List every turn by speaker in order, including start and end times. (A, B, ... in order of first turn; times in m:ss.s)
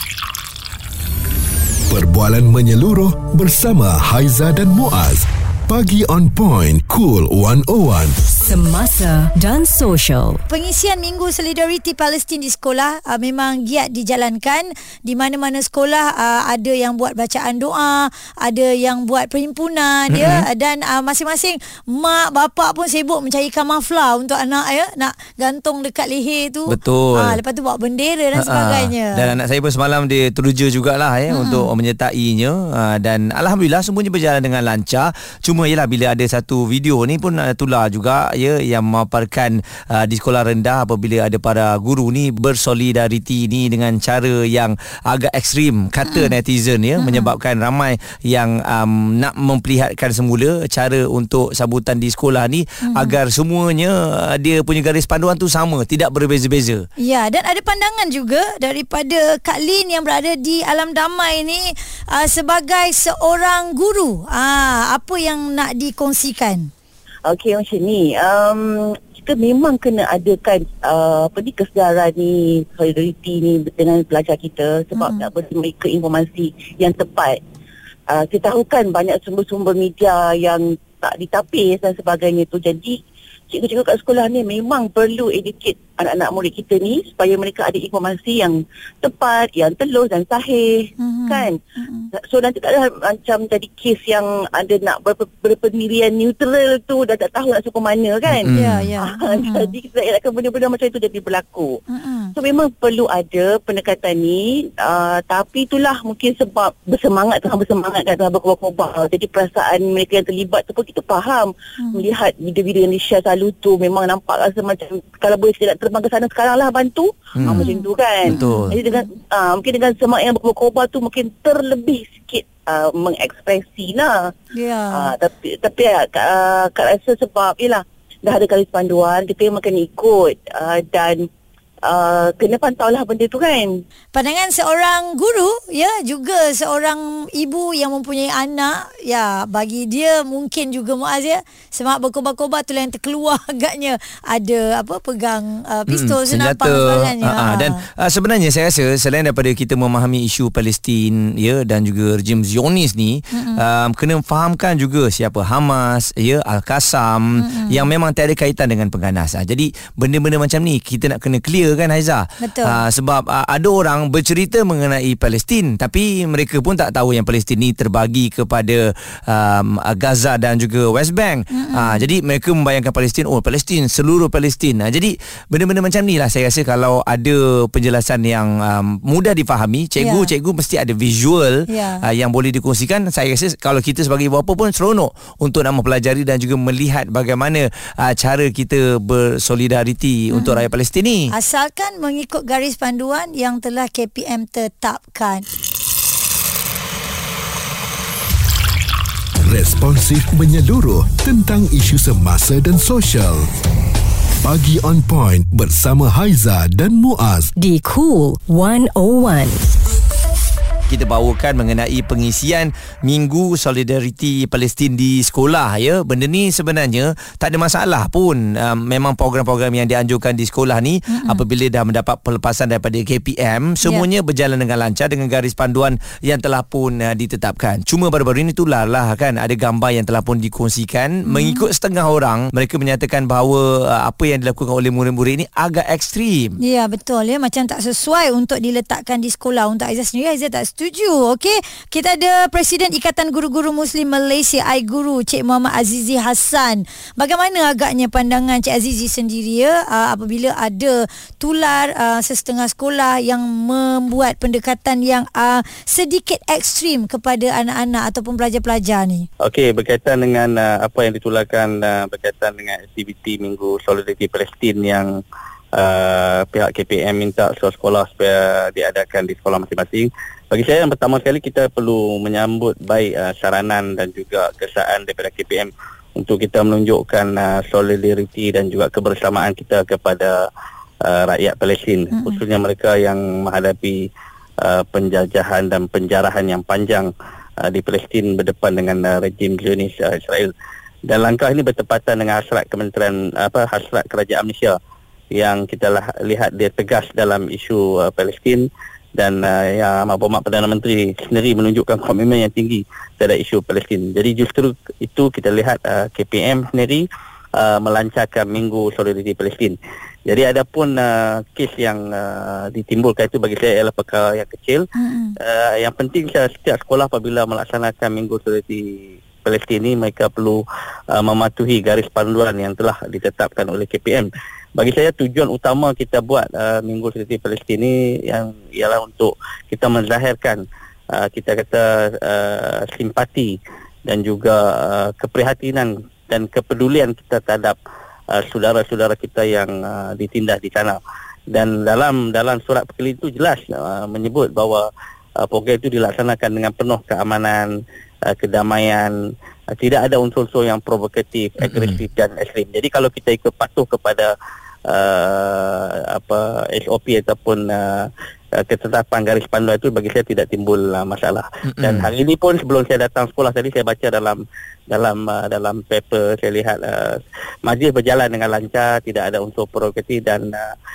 0:01.9-0:08.2 A
0:08.5-0:10.4 B
0:10.5-0:29.3 C
0:20.1-0:20.5 D
0:26.7-0:27.4 D
0:28.4-0:56.8 D
0:31.3-0:31.7 C
0:47.0-0:47.3 C
0:52.8-0:53.2 C
0:57.0-1:06.7 C
1:07.2-1:17.4 E
1:15.0-1:15.2 C
1:18.1-1:31.6 E
1:31.0-1:32.1 C
1:32.3-1:41.8 E
1:38.3-1:38.9 D
1:38.5-1:39.7 C
1:41.9-1:42.3 C
1:42.4-2:04.3 E
1:51.8-1:52.0 C
1:57.4-1:57.6 D
1:57.5-1:59.0 C
1:58.3-1:58.7 D
2:04.5-2:05.1 C
2:04.9-2:11.3 E
2:11.8-2:13.8 E
2:14.1-2:27.8 C
2:25.9-3:11.3 D
2:33.3-2:33.6 C
2:37.4-2:37.9 C
2:42.4-2:42.8 C
2:51.5-2:52.0 C
3:00.0-3:00.3 C
3:01.7-3:02.0 C
3:10.3-3:10.6 C
3:11.3-3:15.5 C
3:19.4-3:23.5 A
3:24.4-3:27.5 A
3:27.6-3:29.6 B
3:30.9-3:56.6 D
3:41.1-3:41.4 C
3:51.2-3:51.6 C
3:56.6-4:19.3 C
4:19.4-4:25.2 F
4:25.8-4:40.4 F
4:41.0-4:44.0 F
4:44.6-4:47.1 F
4:47.6-4:50.5 F
4:51.0-4:54.8 F
4:55.3-5:07.0 F
5:07.6-5:14.8 F
5:15.0-5:15.4 C
5:15.4-5:30.6 F
5:31.1-5:37.8 F
5:38.3-5:41.0 F
5:41.5-5:44.9 F
5:45.4-5:47.7 F
5:48.3-5:49.1 F
5:49.7-5:54.3 F
5:51.6-5:52.0 D
5:54.9-5:58.1 F
5:58.6-6:10.6 F
6:01.7-6:02.1 D